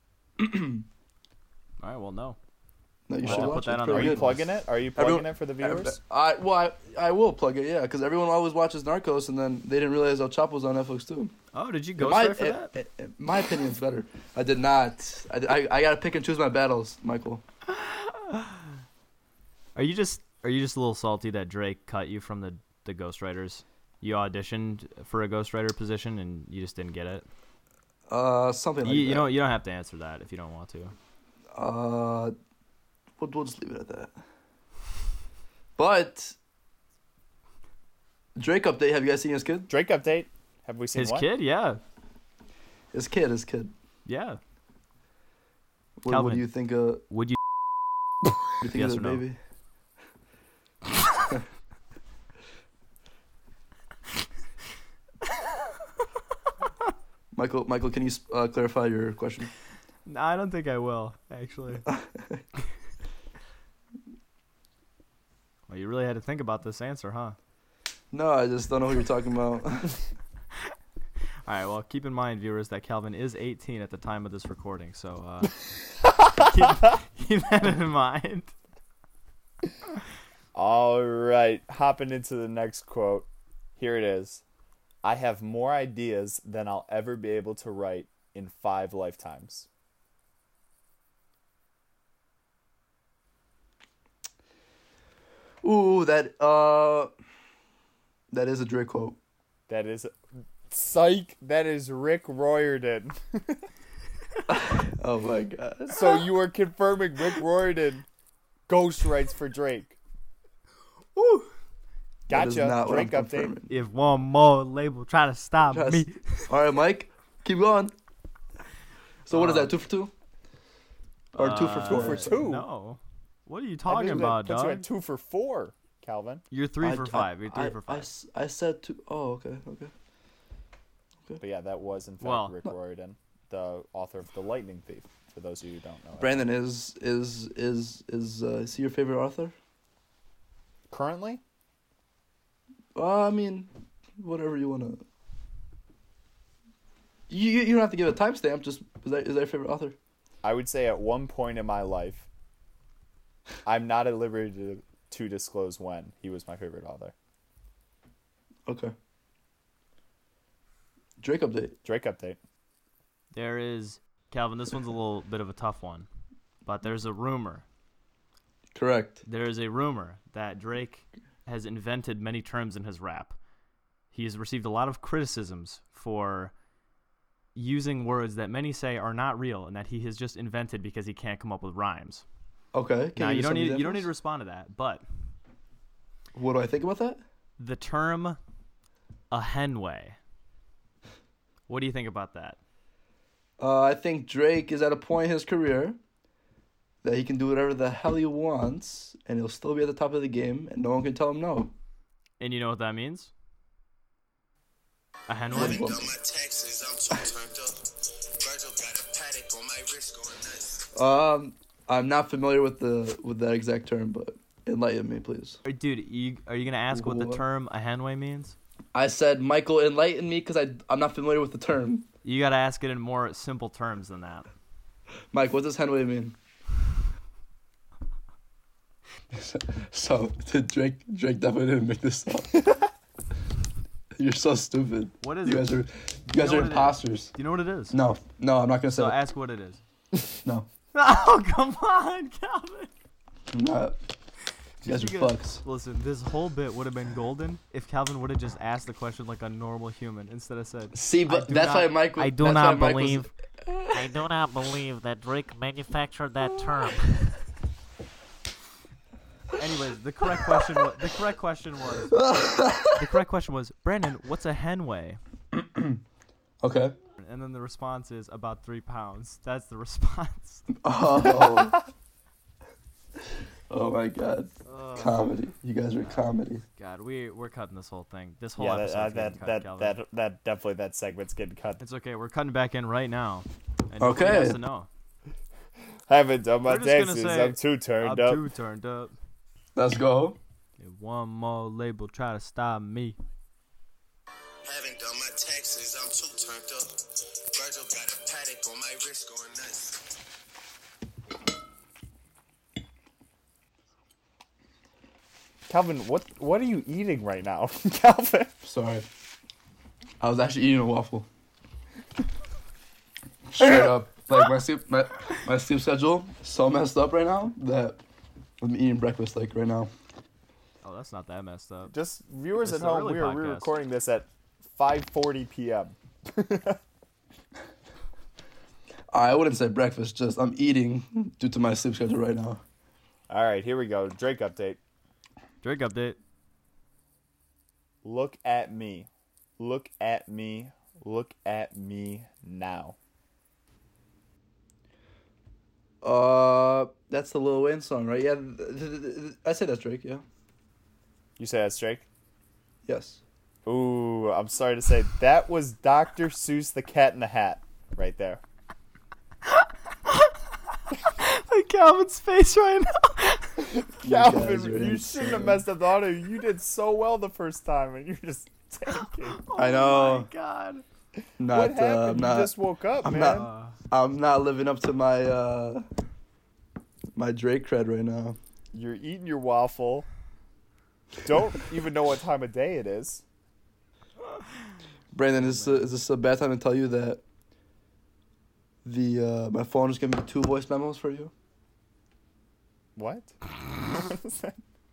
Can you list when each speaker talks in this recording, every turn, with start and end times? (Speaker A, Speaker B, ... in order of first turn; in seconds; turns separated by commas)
Speaker A: 0.4-0.8, Speaker B: 1.8-2.4, Speaker A: 3.1-4.3, Speaker B: 3.2-4.5, Speaker C: 3.2-6.0, Speaker A: 5.0-11.3, Speaker B: 11.5-12.7, Speaker A: 12.0-17.4, Speaker B: 17.7-18.7, Speaker B: 19.7-27.3, Speaker A: 28.1-29.3, Speaker B: 28.8-30.9, Speaker A: 31.5-32.3, Speaker A: 33.2-34.1, Speaker A: 35.8-36.4, Speaker A: 38.4-39.7, Speaker C: 39.7-41.3, Speaker B: 40.9-41.8, Speaker A: 42.9-43.7, Speaker B: 44.0-44.4, Speaker A: 46.0-47.0, Speaker B: 46.1-46.5, Speaker B: 47.1-47.4, Speaker A: 48.6-49.4, Speaker B: 48.6-49.2, Speaker A: 57.3-59.5, Speaker B: 60.0-61.9, Speaker A: 61.9-62.4, Speaker B: 65.7-67.3, Speaker A: 68.1-70.0, Speaker B: 71.5-75.6, Speaker C: 76.0-76.7, Speaker B: 76.3-78.5, Speaker C: 80.5-84.4, Speaker C: 85.0-89.7, Speaker A: 95.6-97.1, Speaker A: 98.3-99.2, Speaker C: 99.7-103.7, Speaker A: 104.5-106.2, Speaker C: 105.9-108.0, Speaker C: 108.7-110.0, Speaker B: 111.2-111.5, Speaker C: 112.3-113.5, Speaker A: 112.3-113.7, Speaker B: 113.7-116.5, Speaker A: 115.6-117.9, Speaker A: 119.3-120.1, Speaker B: 119.3-119.7, Speaker A: 121.3-122.4, Speaker B: 121.3-124.9, Speaker C: 121.8-122.7, Speaker C: 123.9-126.4, Speaker B: 126.5-128.1, Speaker A: 126.8-129.9, Speaker C: 131.4-136.4, Speaker B: 132.2-132.6, Speaker A: 136.2-139.5, Speaker C: 140.9-141.4, Speaker A: 142.9-145.0, Speaker A: 147.3-149.9, Speaker C: 150.4-152.3, Speaker C: 153.6-157.1, Speaker A: 158.7-158.9, Speaker A: 161.2-161.8, Speaker C: 161.8-162.4, Speaker B: 163.3-166.1, Speaker B: 166.6-167.6, Speaker A: 168.7-169.2, Speaker B: 169.2-173.3, Speaker B: 174.1-176.5, Speaker B: 177.5-182.2, Speaker A: 182.7-184.1, Speaker B: 183.1-185.0, Speaker A: 186.3-187.2, Speaker B: 187.6-188.4, Speaker B: 189.3-190.2, Speaker B: 191.7-192.6, Speaker A: 193.6-196.0, Speaker A: 197.0-201.7, Speaker B: 202.4-203.3, Speaker B: 205.3-205.9, Speaker D: 205.5-207.8, Speaker A: 205.5-206.1, Speaker D: 208.4-210.9, Speaker A: 210.9-215.6, Speaker B: 215.6-218.6, Speaker A: 216.9-217.4, Speaker A: 218.9-222.1, Speaker B: 222.2-224.5, Speaker A: 225.3-226.3, Speaker A: 229.3-232.6, Speaker A: 234.2-237.3, Speaker B: 235.2-235.8, Speaker B: 236.3-238.0, Speaker A: 237.9-239.2, Speaker B: 238.9-239.8, Speaker B: 240.9-242.9, Speaker A: 243.5-244.0, Speaker B: 244.8-253.3, Speaker A: 244.8-245.6, Speaker A: 250.9-253.9, Speaker E: 252.4-253.0, Speaker E: 253.9-257.3, Speaker B: 259.6-262.2, Speaker A: 262.1-263.0, Speaker B: 262.9-265.2, Speaker A: 265.5-266.0, Speaker A: 266.6-266.9, Speaker B: 267.2-270.7, Speaker A: 270.8-271.9, Speaker A: 273.7-276.6, Speaker B: 274.6-275.3, Speaker B: 276.8-280.0, Speaker C: 278.6-281.8, Speaker B: 281.8-284.9, Speaker A: 284.0-284.6, Speaker C: 286.1-288.4, Speaker B: 286.6-289.1, Speaker A: 289.7-290.4, Speaker B: 290.8-293.2, Speaker D: 294.6-297.0, Speaker D: 297.5-300.1, Speaker C: 305.7-308.5, Speaker A: 308.6-309.1, Speaker A: 310.2-311.3, Speaker A: 313.5-318.0, Speaker A: 318.6-319.9, Speaker B: 320.8-321.9, Speaker C: 321.9-326.8, Speaker B: 322.6-323.7, Speaker A: 329.1-332.6, Speaker C: 333.3-334.8, Speaker B: 335.6-336.2, Speaker C: 338.0-342.9, Speaker A: 346.0-350.2, Speaker C: 351.4-352.1, Speaker A: 352.8-353.2, Speaker C: 353.6-358.4, Speaker B: 361.1-363.6, Speaker A: 364.0-365.6, Speaker C: 364.0-369.4, Speaker B: 369.2-370.8, Speaker A: 369.6-370.3, Speaker A: 371.4-375.9, Speaker C: 371.5-373.5, Speaker B: 373.1-373.7, Speaker A: 377.1-378.4, Speaker C: 378.7-380.1, Speaker C: 381.2-383.2, Speaker A: 385.1-387.2, Speaker B: 385.4-385.9, Speaker A: 388.8-391.3, Speaker C: 392.9-393.3, Speaker C: 393.9-394.6